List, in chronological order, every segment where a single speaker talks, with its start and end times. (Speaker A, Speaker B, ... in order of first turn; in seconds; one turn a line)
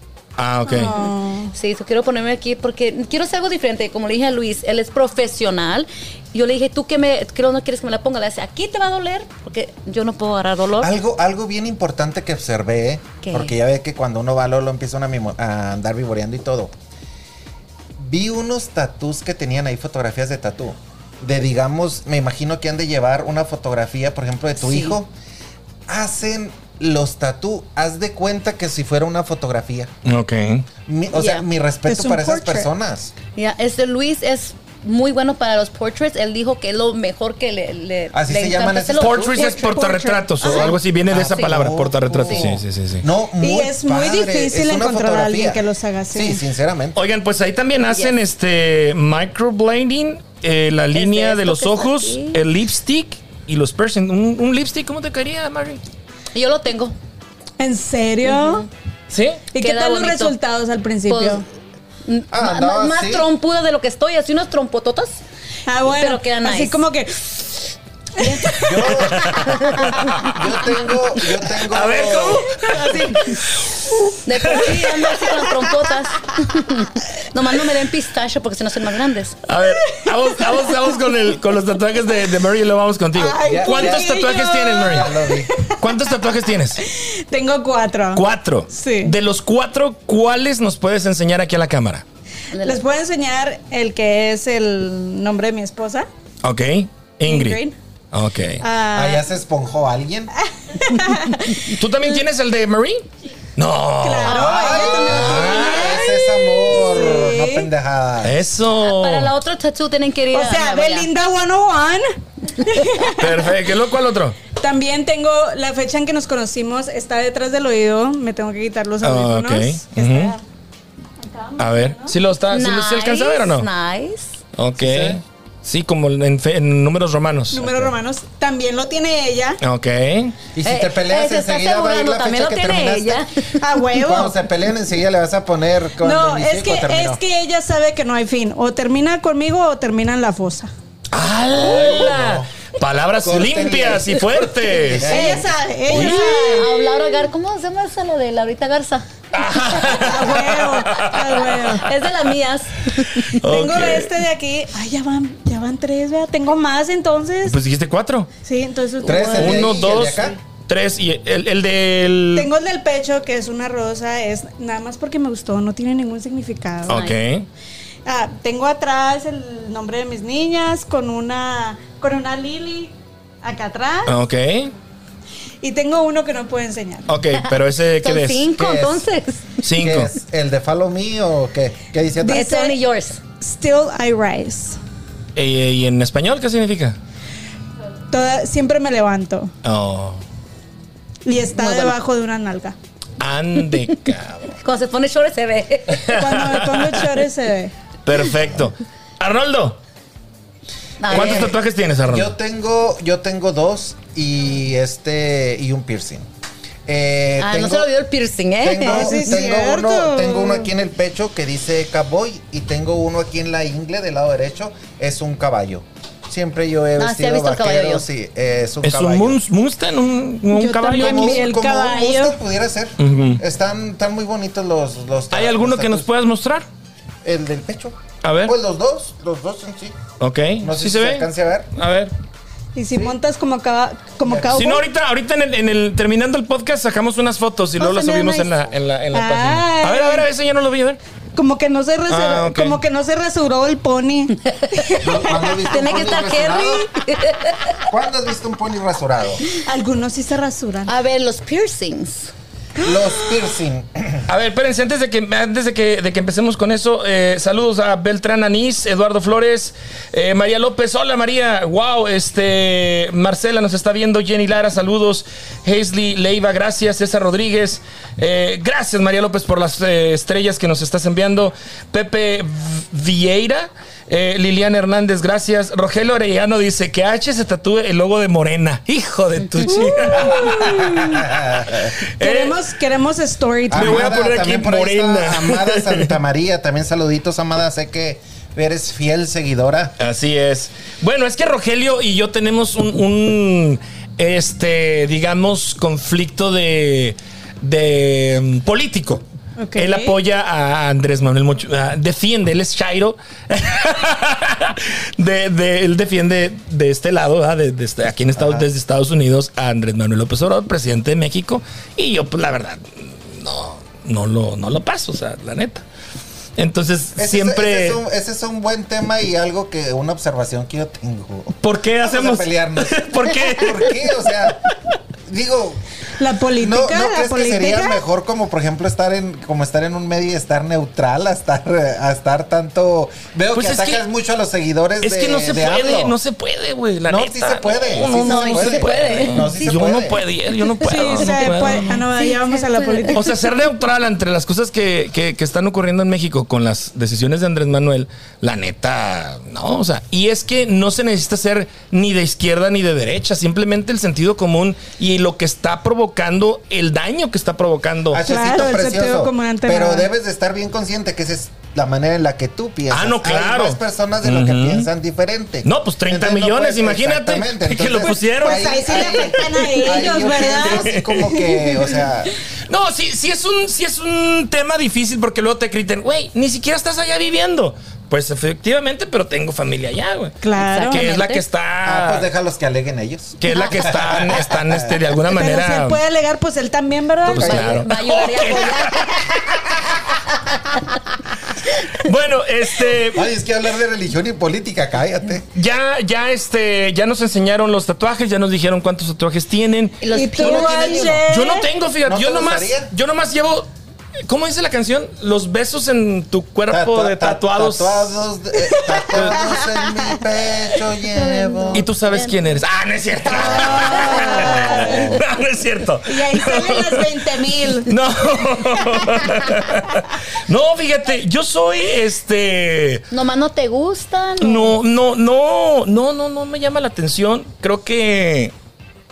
Speaker A: 0.4-0.9
Speaker B: 0.7-1.5
Speaker C: 0.9-10.9
Speaker D: 10.8-16.7
Speaker C: 13.2-13.5
Speaker D: 18.0-25.1
Speaker C: 24.6-25.0
Speaker D: 25.9-29.9
Speaker A: 30.0-30.7
Speaker D: 30.9-33.1
Speaker C: 31.1-31.4
Speaker B: 31.9-32.7
Speaker C: 33.3-39.3
Speaker D: 38.1-39.5
Speaker A: 39.0-43.0
Speaker B: 39.3-40.7
Speaker C: 40.4-40.8
Speaker D: 40.5-47.0
Speaker C: 41.3-41.5
Speaker B: 43.4-46.4
Speaker A: 46.9-55.8
Speaker C: 50.9-52.4
Speaker C: 56.3-56.9
Speaker B: 57.6-58.7
Speaker C: 58.2-58.7
Speaker A: 59.1-59.4
Speaker B: 59.5-61.4
Speaker C: 59.5-60.4
Speaker C: 61.0-61.4
Speaker C: 62.0-65.2
Speaker D: 62.3-63.3
Speaker B: 65.7-67.6
Speaker C: 65.8-66.8
Speaker C: 68.2-68.5
Speaker B: 68.2-68.7
Speaker D: 68.6-72.9
Speaker A: 68.8-70.4
Speaker C: 69.3-70.4
Speaker A: 71.2-75.1
Speaker B: 72.7-73.4
Speaker C: 74.2-79.4
Speaker A: 79.5-85.2
Speaker B: 83.1-86.0
Speaker D: 83.4-84.2
Speaker D: 84.8-85.5
Speaker A: 85.8-86.8
Speaker B: 86.8-89.1
Speaker A: 88.1-92.0
Speaker C: 92.5-92.8
Speaker B: 92.6-96.1
Speaker A: 96.4-98.6
Speaker B: 97.2-97.7
Speaker B: 98.6-99.2
Speaker D: 98.9-100.3
Speaker B: 100.7-101.7
Speaker A: 101.5-106.0
Speaker B: 104.0-107.7
Speaker C: 104.2-105.2
Speaker D: 104.3-108.3
Speaker A: 108.2-109.3
Speaker C: 108.8-111.1
Speaker B: 110.3-113.5
Speaker A: 113.1-114.4
Speaker B: 114.5-120.4
Speaker A: 119.0-120.3
Speaker B: 121.2-122.1
Speaker A: 121.6-123.7
Speaker C: 122.5-124.4
Speaker A: 124.5-127.9
Speaker D: 124.8-125.2
Speaker B: 127.5-129.6
Speaker A: 129.6-130.3
Speaker D: 130.6-133.2
Speaker C: 130.6-133.6
Speaker B: 133.6-134.4
Speaker D: 133.9-137.2
Speaker B: 136.0-140.7
Speaker A: 141.1-145.3
Speaker D: 141.5-142.5
Speaker D: 143.2-145.5
Speaker B: 145.1-146.9
Speaker C: 145.9-149.1
Speaker A: 145.9-146.6
Speaker A: 149.3-151.8
Speaker C: 149.8-150.1
Speaker B: 149.8-151.9
Speaker C: 151.7-153.3
Speaker A: 153.0-154.1
Speaker B: 153.4-157.6
Speaker A: 157.4-158.3
Speaker B: 158.4-159.7
Speaker D: 159.0-160.4
Speaker C: 159.0-159.3
Speaker A: 159.3-162.5
Speaker B: 162.3-167.0
Speaker A: 166.9-167.5
Speaker C: 166.9-167.1
Speaker B: 168.1-174.2
Speaker A: 174.1-174.7
Speaker B: 175.6-177.1
Speaker A: 177.1-178.4
Speaker C: 177.3-179.6
Speaker D: 178.5-179.0
Speaker A: 179.6-180.1
Speaker D: 179.7-182.5
Speaker B: 182.2-182.8
Speaker C: 182.3-183.2
Speaker B: 183.4-184.8
Speaker A: 185.3-187.0
Speaker B: 188.1-189.5
Speaker A: 189.6-190.2
Speaker B: 191.2-192.8
Speaker C: 191.5-192.0
Speaker A: 193.2-194.6
Speaker C: 194.6-196.1
Speaker A: 195.9-197.1
Speaker B: 196.1-197.7
Speaker A: 198.1-199.8
Speaker C: 201.0-201.5
Speaker D: 201.0-201.6
Speaker A: 201.1-202.3
Speaker D: 202.1-206.2
Speaker D: 206.8-207.9
Speaker C: 207.4-209.4
Speaker D: 208.6-219.4
Speaker B: 208.8-210.7
Speaker C: 217.0-218.0
Speaker A: 218.8-221.4
Speaker B: 220.5-222.3
Speaker D: 220.9-226.1
Speaker A: 223.0-223.4
Speaker A: 225.3-226.7
Speaker D: 227.2-230.0
Speaker A: 228.2-228.5
Speaker A: 230.2-232.1
Speaker D: 230.6-231.7
Speaker B: 232.7-234.8
Speaker A: 234.4-241.0
Speaker B: 237.8-238.5
Speaker B: 239.1-240.3
Speaker B: 241.3-246.0
Speaker A: 242.1-242.8
Speaker D: 245.0-246.9
Speaker C: 245.6-247.8
Speaker D: 247.8-249.4
Speaker B: 249.6-250.9
Speaker C: 250.8-252.3
Speaker D: 252.8-254.2
Speaker A: 254.3-282.6
Speaker C: 279.4-279.9
Speaker B: 279.7-281.1
Speaker D: 281.0-281.9
Speaker B: 282.2-284.1
Speaker D: 283.7-289.9
Speaker A: 283.7-286.1
Speaker A: 290.0-299.2
Speaker B: 299.6-300.1
Speaker A: 299.7-315.8
Speaker D: 308.4-308.7
Speaker A: 316.6-318.0
Speaker D: 317.1-324.6
Speaker A: 321.6-324.1
Speaker D: 325.3-325.8
Speaker B: 326.2-328.0
Speaker D: 326.6-336.1
Speaker A: 333.5-334.0
Speaker A: 335.0-342.0
Speaker D: 337.1-340.2
Speaker C: 338.1-339.8
Speaker B: 340.8-343.3
Speaker C: 340.9-343.2
Speaker A: 343.1-358.2
Speaker D: 358.1-372.3
Speaker B: 358.2-360.1
Speaker A: 362.9-364.9
Speaker A: 365.6-371.2
Speaker B: 368.0-372.0
Speaker A: 372.7-382.3
Speaker B: 380.4-381.0
Speaker C: 380.6-381.4
Speaker D: 381.8-385.0
Speaker A: 383.4-386.0
Speaker B: 385.3-387.6
Speaker D: 387.2-387.9
Speaker A: 387.3-389.9
Speaker C: 387.4-389.4
Speaker A: 391.8-393.3
Speaker D: 393.1-395.5
Speaker A: 395.5-400.1
Speaker C: 400.0-401.2
Speaker B: 400.1-401.7
Speaker D: 400.4-401.2
Speaker A: 401.2-403.7
Speaker D: 402.0-402.9
Speaker A: 404.2-408.2
Speaker D: 406.7-411.9
Speaker B: 408.7-409.6
Speaker A: 409.1-409.4
Speaker C: 411.1-412.3
Speaker A: 411.7-417.1
Speaker B: 413.3-415.2
Speaker C: 413.6-415.0
Speaker B: 416.1-417.9
Speaker A: 417.8-423.1
Speaker C: 423.1-424.8
Speaker A: 424.4-428.5